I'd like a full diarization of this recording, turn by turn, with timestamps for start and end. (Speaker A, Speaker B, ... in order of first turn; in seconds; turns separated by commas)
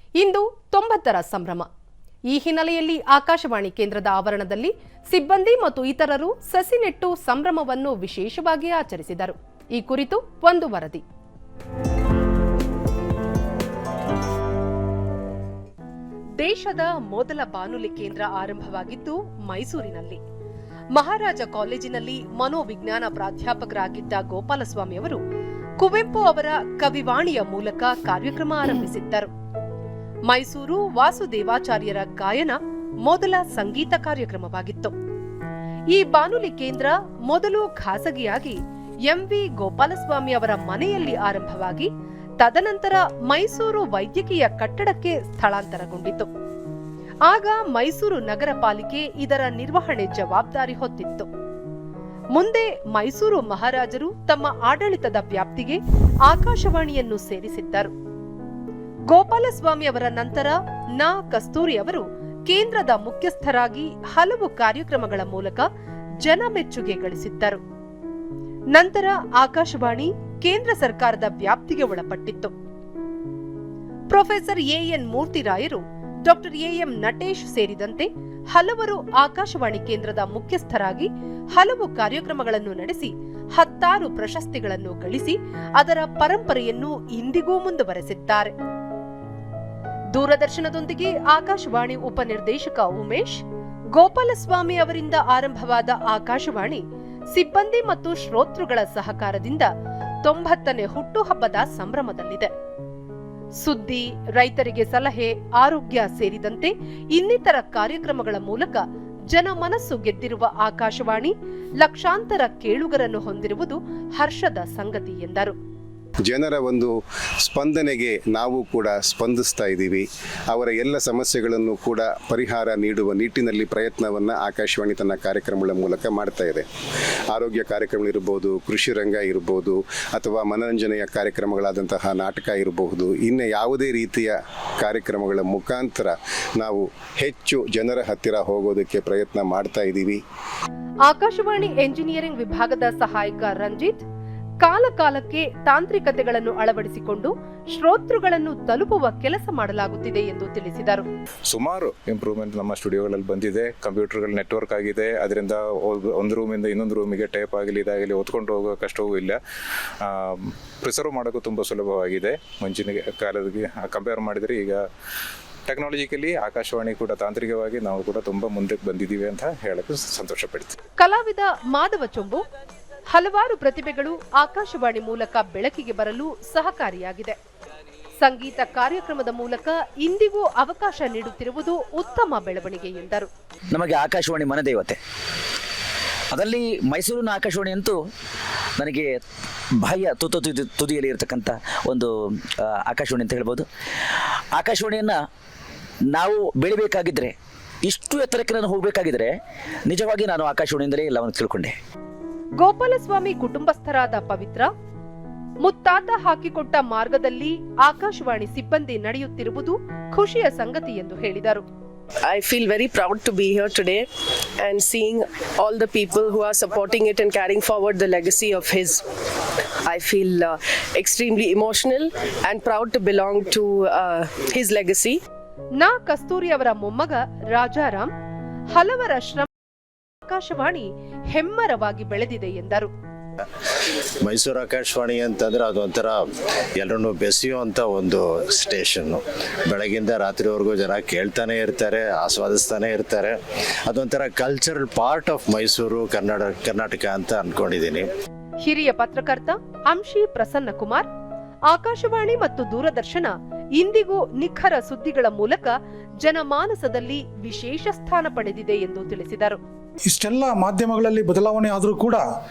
Speaker A: 0.2-1.7, Speaker A: 2.3-11.0, Speaker A: 16.4-20.2, Speaker A: 20.9-25.2, Speaker A: 25.8-29.3, Speaker A: 30.3-35.0, Speaker A: 35.9-46.3, Speaker A: 47.3-51.3, Speaker A: 52.4-57.9, Speaker A: 59.1-65.7, Speaker A: 66.2-67.6, Speaker A: 68.7-72.5, Speaker A: 74.1-88.5, Speaker A: 90.1-93.4, Speaker A: 93.9-99.7, Speaker A: 100.2-102.5, Speaker A: 103.6-115.6, Speaker B: 116.3-126.7, Speaker B: 127.3-140.2, Speaker A: 141.1-144.0, Speaker A: 144.6-151.1, Speaker C: 151.5-159.4, Speaker C: 160.0-164.8, Speaker C: 165.7-170.8, Speaker A: 171.0-172.4, Speaker A: 173.1-177.4, Speaker A: 178.2-183.3, Speaker D: 183.7-185.0, Speaker D: 186.3-188.0, Speaker D: 188.8-189.1, Speaker D: 189.8-192.1, Speaker D: 192.9-193.7, Speaker D: 194.6-195.2, Speaker D: 196.1-199.3, Speaker D: 199.9-201.8, Speaker A: 202.6-204.7, Speaker A: 205.6-211.6, Speaker E: 212.2-214.1, Speaker E: 214.6-219.1, Speaker E: 219.8-225.2, Speaker A: 225.8-228.1, Speaker A: 228.7-229.5, Speaker A: 230.3-232.9, Speaker F: 234.2-236.2, Speaker F: 236.8-248.1, Speaker A: 248.6-251.1, Speaker A: 251.7-259.6, Speaker G: 260.1-262.2